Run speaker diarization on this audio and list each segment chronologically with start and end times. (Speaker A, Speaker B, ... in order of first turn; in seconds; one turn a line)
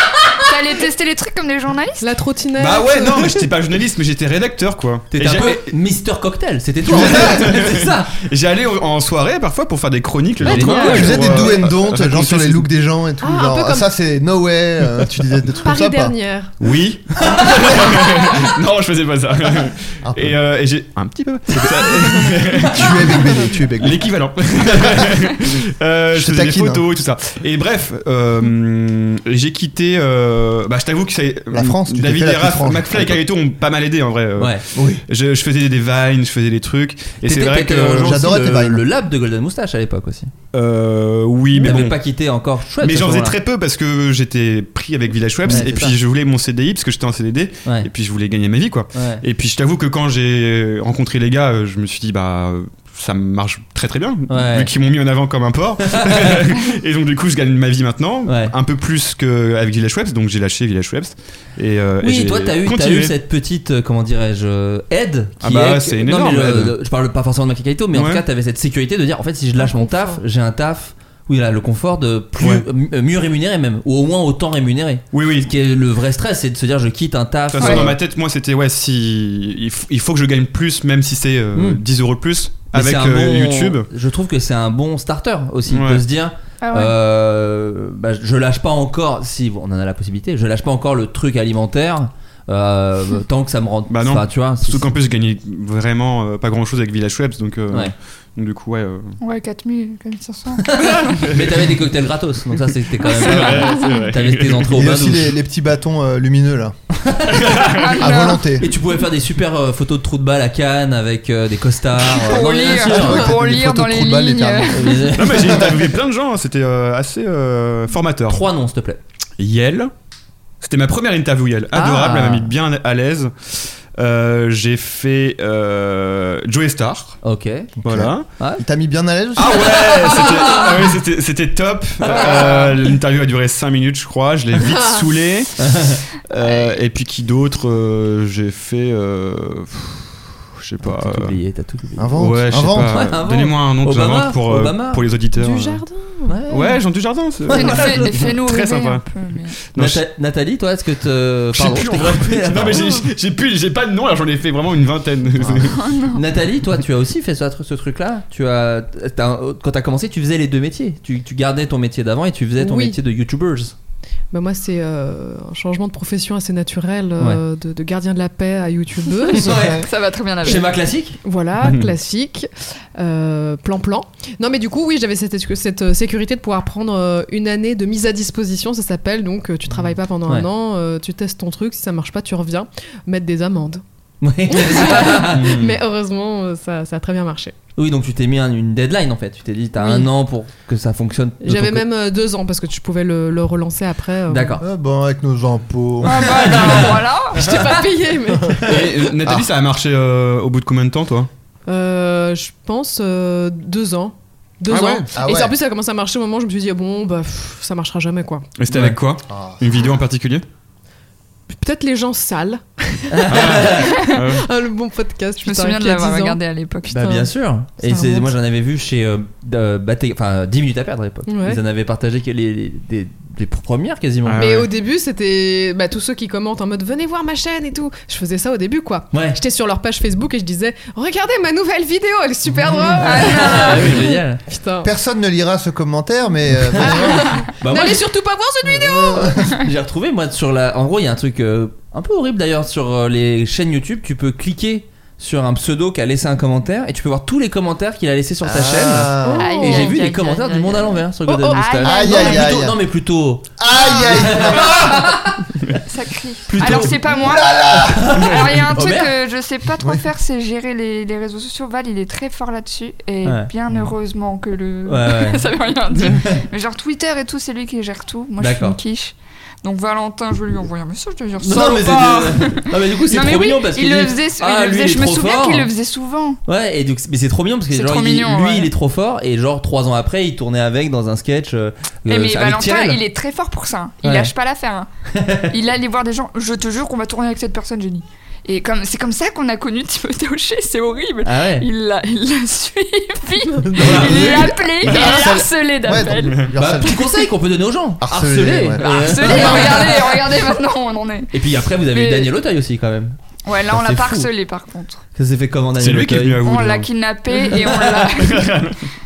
Speaker A: 0.4-2.1
Speaker B: 2.0-3.5
Speaker C: 2.6-5.7
Speaker D: 5.1-8.1
Speaker C: 6.8-12.7
Speaker D: 10.4-11.3
Speaker B: 10.5-11.5
Speaker E: 10.6-16.1
Speaker B: 13.2-13.9
Speaker B: 15.6-16.5
Speaker C: 16.6-38.3
Speaker E: 20.0-20.4
Speaker E: 21.5-21.9
Speaker E: 22.6-24.1
Speaker E: 24.7-25.1
Speaker E: 26.1-26.9
Speaker E: 31.5-33.2
Speaker D: 34.4-34.6
Speaker E: 34.7-35.0
Speaker D: 37.2-40.3
Speaker E: 38.0-38.8
Speaker C: 40.5-42.0
Speaker D: 41.6-43.4
Speaker C: 42.8-63.1
Speaker D: 45.5-46.0
Speaker D: 48.9-49.2
Speaker D: 54.3-54.7
Speaker D: 55.8-56.4
Speaker D: 58.2-58.5
Speaker D: 62.0-78.0
Speaker C: 65.4-66.8
Speaker C: 67.9-68.2
Speaker B: 69.6-70.2
Speaker C: 72.4-72.7
Speaker C: 75.1-75.5
Speaker C: 77.5-83.9
Speaker A: 77.6-77.9
Speaker D: 81.5-81.8
Speaker D: 82.7-94.9
Speaker C: 85.7-86.0
Speaker A: 86.6-86.9
Speaker C: 93.9-99.2
Speaker A: 99.2-101.3
Speaker D: 100.6-105.3
Speaker C: 101.2-101.7
Speaker A: 103.0-104.0
Speaker C: 103.1-104.8
Speaker E: 104.7-106.7
Speaker D: 107.0-107.7
Speaker C: 107.5-107.9
Speaker A: 107.7-108.5
Speaker E: 108.0-108.7
Speaker D: 108.6-113.3
Speaker A: 112.0-115.1
Speaker E: 112.8-114.9
Speaker D: 114.7-115.7
Speaker C: 115.1-118.5
Speaker D: 118.3-119.0
Speaker C: 119.4-119.9
Speaker C: 120.6-127.2
Speaker D: 121.7-122.5
Speaker D: 127.2-127.7
Speaker E: 127.8-129.8
Speaker C: 127.8-128.3
Speaker C: 129.3-141.3
Speaker D: 129.5-130.9
Speaker D: 132.0-132.6
Speaker B: 132.2-132.7
Speaker B: 134.5-135.1
Speaker D: 135.6-136.0
Speaker D: 140.8-142.2
Speaker E: 142.0-143.1
Speaker C: 142.2-145.8
Speaker D: 142.8-145.0
Speaker B: 145.3-146.4
Speaker D: 146.3-146.8
Speaker C: 146.5-149.1
Speaker A: 147.5-149.6
Speaker D: 147.6-148.1
Speaker C: 149.6-150.0
Speaker D: 149.7-152.9
Speaker C: 151.5-155.8
Speaker B: 152.7-153.0
Speaker D: 155.4-163.7
Speaker A: 155.7-156.2
Speaker B: 162.6-163.0
Speaker B: 164.3-169.8
Speaker D: 169.3-169.8
Speaker A: 169.8-170.7
Speaker D: 170.4-171.2
Speaker B: 171.2-183.8
Speaker C: 171.6-171.9
Speaker E: 179.7-179.9
Speaker D: 184.2-185.6
Speaker B: 184.5-187.5
Speaker C: 185.4-185.8
Speaker D: 187.8-191.8
Speaker B: 189.8-190.1
Speaker B: 191.4-194.6
Speaker D: 194.3-194.6
Speaker E: 194.6-196.9
Speaker A: 196.0-197.5
Speaker D: 196.4-197.8
Speaker B: 197.3-198.7
Speaker C: 198.6-201.3
Speaker B: 201.7-208.5
Speaker C: 204.7-205.1
Speaker E: 205.1-205.6
Speaker C: 208.6-210.4
Speaker D: 208.7-209.0
Speaker E: 209.3-209.6
Speaker B: 211.5-216.4
Speaker D: 213.1-213.9
Speaker C: 213.3-214.4
Speaker A: 215.4-216.9
Speaker D: 216.9-224.4
Speaker B: 216.9-218.3
Speaker B: 221.3-221.6
Speaker C: 224.2-224.7
Speaker B: 224.4-234.9
Speaker D: 229.1-229.4
Speaker D: 232.7-234.4
Speaker A: 233.0-233.9
Speaker E: 234.8-237.4
Speaker D: 236.7-238.0
Speaker B: 236.8-239.5
Speaker E: 238.6-239.5
Speaker D: 239.2-255.8
Speaker E: 248.4-249.5
Speaker B: 249.2-250.0
Speaker A: 249.3-252.5
Speaker B: 251.2-252.3
Speaker E: 251.8-252.8
Speaker E: 253.6-255.0
Speaker A: 253.7-254.4
Speaker A: 255.8-276.4
Speaker D: 256.5-259.1
Speaker E: 257.1-258.2
Speaker D: 263.2-263.5
Speaker D: 264.9-265.4
Speaker D: 266.0-266.4
Speaker D: 268.4-268.8
Speaker D: 271.4-275.7
Speaker D: 276.4-283.0
Speaker A: 277.7-278.7
Speaker A: 282.1-284.9
Speaker D: 284.0-284.3
Speaker D: 285.1-285.5
Speaker A: 285.4-296.9
Speaker D: 291.2-291.7
Speaker E: 293.6-297.2
Speaker D: 293.8-294.5
Speaker C: 296.2-296.5
Speaker D: 296.5-300.0
Speaker E: 298.0-300.1
Speaker A: 298.8-301.3
Speaker D: 301.3-303.2
Speaker A: 301.9-302.3
Speaker A: 303.4-305.0
Speaker D: 303.7-304.3
Speaker D: 305.1-306.4
Speaker C: 305.8-306.9
Speaker A: 306.4-308.5
Speaker D: 307.4-308.1
Speaker C: 308.2-308.8